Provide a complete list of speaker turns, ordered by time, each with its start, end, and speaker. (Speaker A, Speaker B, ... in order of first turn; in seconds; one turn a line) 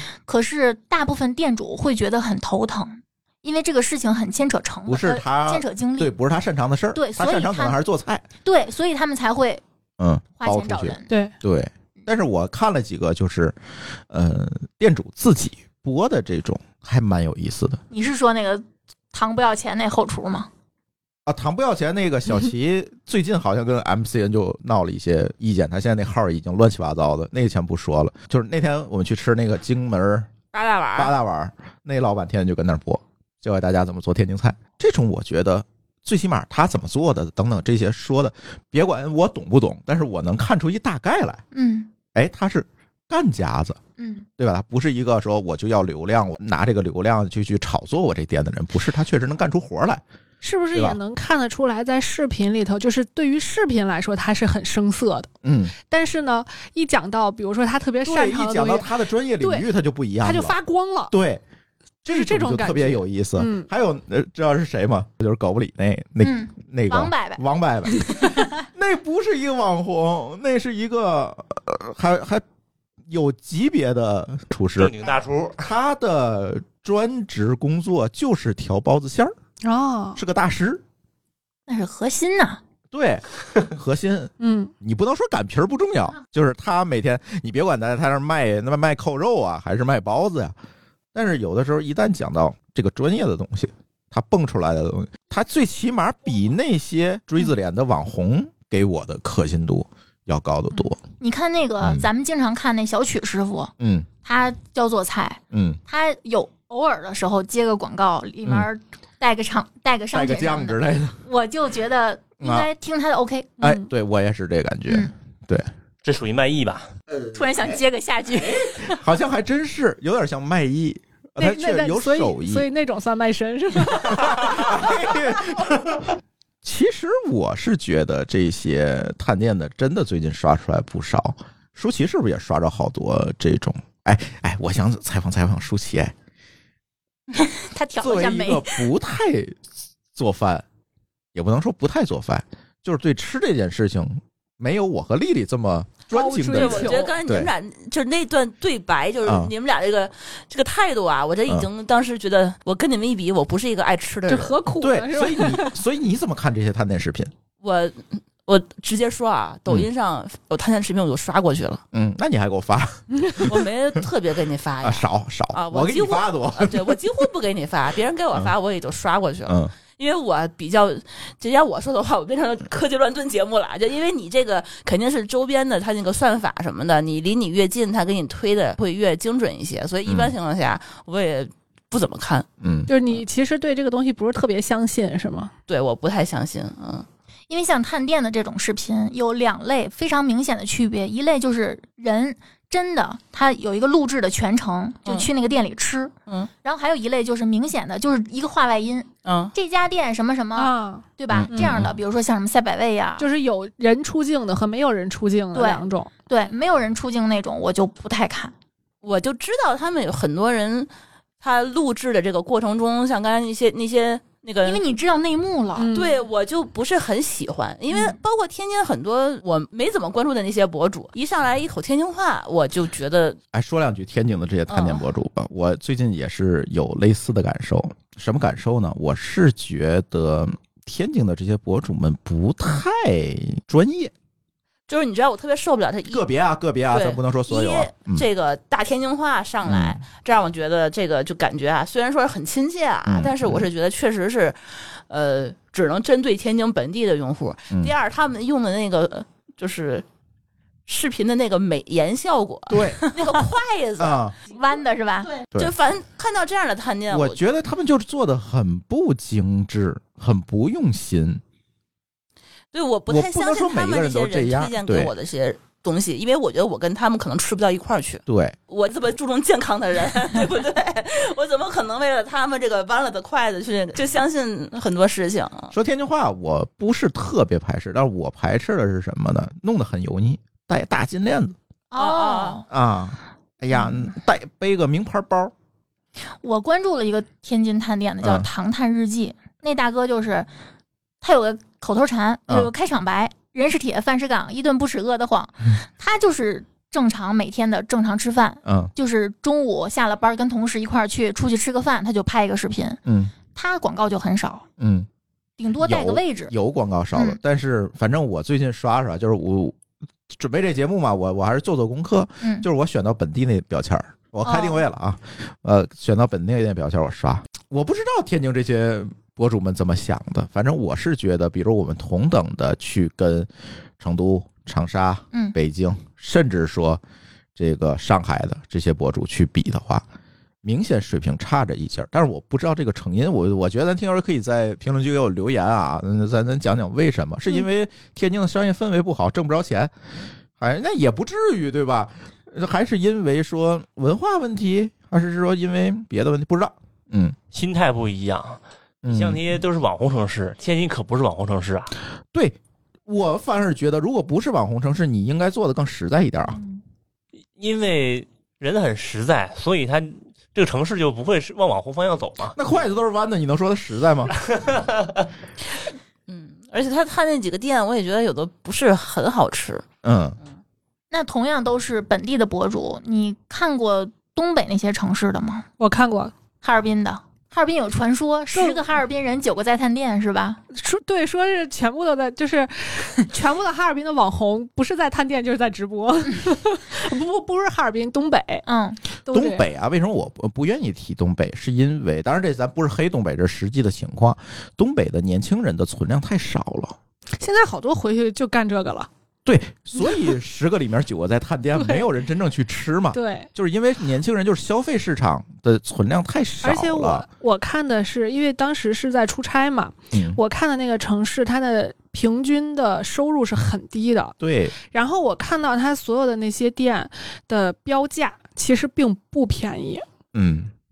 Speaker A: 0.3-6.1
Speaker B: 4.9-8.2
Speaker A: 6.9-7.7
Speaker A: 8.4-9.6
Speaker B: 10.0-13.6
Speaker A: 10.4-11.1
Speaker B: 14.1-17.8
Speaker A: 17.9-20.5
Speaker B: 21.2-30.3
Speaker C: 30.5-31.1
Speaker B: 30.9-41.4
Speaker A: 41.5-41.9
Speaker B: 42.1-43.8
Speaker A: 44.0-44.3
Speaker B: 44.4-50.0
Speaker D: 50.4-55.3
Speaker B: 50.7-51.0
Speaker B: 55.4-55.7
Speaker D: 55.9-59.6
Speaker B: 58.0-60.6
Speaker D: 60.2-61.1
Speaker B: 61.1-61.4
Speaker B: 62.0-72.4
Speaker D: 62.1-63.7
Speaker A: 66.2-68.6
Speaker B: 73.1-74.9
Speaker E: 74.8-75.6
Speaker B: 75.6-79.4
Speaker D: 79.6-80.2
Speaker B: 80.1-80.8
Speaker A: 81.7-82.6
Speaker B: 82.9-90.5
Speaker D: 84.4-84.7
Speaker B: 91.1-101.0
Speaker A: 101.2-103.7
Speaker B: 101.8-102.1
Speaker B: 103.8-104.1
Speaker A: 104.2-113.6
Speaker B: 105.5-105.8
Speaker B: 110.1-111.2
Speaker B: 112.4-112.7
Speaker B: 113.6-115.7
Speaker E: 116.0-116.9
Speaker A: 117.3-119.0
Speaker B: 118.8-122.7
Speaker D: 121.4-125.2
Speaker B: 124.1-136.1
Speaker A: 137.3-138.8
Speaker B: 138.0-139.6
Speaker B: 140.1-140.6
Speaker B: 141.3-147.5
Speaker D: 146.1-147.1
Speaker C: 146.5-154.6
Speaker B: 149.2-149.5
Speaker D: 154.3-155.8
Speaker B: 154.8-157.3
Speaker C: 157.6-161.8
Speaker B: 161.9-164.0
Speaker C: 163.4-182.5
Speaker B: 164.8-167.1
Speaker B: 169.5-169.7
Speaker B: 180.1-180.3
Speaker B: 182.6-182.9
Speaker D: 182.9-185.5
Speaker C: 185.7-187.1
Speaker A: 187.5-196.1
Speaker A: 196.6-203.3
Speaker C: 199.2-199.5
Speaker D: 200.6-201.0
Speaker B: 201.3-201.9
Speaker D: 203.2-206.1
Speaker A: 205.5-208.5
Speaker C: 209.0-210.9
Speaker C: 211.4-214.8
Speaker A: 214.6-215.9
Speaker D: 215.8-216.2
Speaker C: 215.9-223.4
Speaker A: 217.9-218.2
Speaker B: 223.5-234.1
Speaker C: 224.7-225.0
Speaker C: 234.9-236.2
Speaker B: 236.1-238.2
Speaker C: 236.9-250.0
Speaker B: 239.6-240.0
Speaker B: 243.1-243.7
Speaker C: 250.9-254.2
Speaker B: 252.7-253.0
Speaker A: 253.1-253.4
Speaker B: 254.0-254.3
Speaker A: 254.5-255.3
Speaker C: 255.3-257.4
Speaker B: 257.1-261.4
Speaker C: 262.7-275.7
Speaker B: 263.1-265.1
Speaker B: 268.3-268.6
Speaker B: 275.7-281.6
Speaker A: 281.9-282.6
Speaker C: 281.9-282.6
Speaker B: 282.7-285.5
Speaker A: 286.4-290.5
Speaker B: 288.2-288.5
Speaker A: 291.2-303.0
Speaker B: 298.6-298.9
Speaker B: 303.1-303.3
Speaker A: 303.5-304.6
Speaker B: 304.8-305.1
Speaker A: 305.6-306.5
Speaker B: 305.8-309.8
Speaker B: 310.3-327.0
Speaker A: 312.4-312.6
Speaker A: 314.4-314.8
Speaker B: 327.6-330.0
Speaker B: 330.6-339.9
Speaker B: 340.6-347.4
Speaker E: 347.5-351.9
Speaker B: 349.0-349.6
Speaker B: 352.3-356.6
Speaker E: 357.6-362.6
Speaker B: 362.6-364.3
Speaker E: 364.5-365.2
Speaker C: 366.3-369.9
Speaker B: 370.0-370.4
Speaker A: 371.1-375.6
Speaker D: 375.8-376.3
Speaker A: 376.6-380.6
Speaker D: 378.5-378.8
Speaker D: 380.7-388.6
Speaker A: 388.6-389.0
Speaker D: 389.3-389.6
Speaker B: 389.3-396.9
Speaker D: 397.4-399.1
Speaker B: 399.4-407.2
Speaker D: 401.7-402.1
Speaker D: 403.1-403.5
Speaker D: 406.6-414.4
Speaker B: 410.1-410.4
Speaker B: 414.4-414.7
Speaker D: 414.9-420.1
Speaker B: 420.3-420.7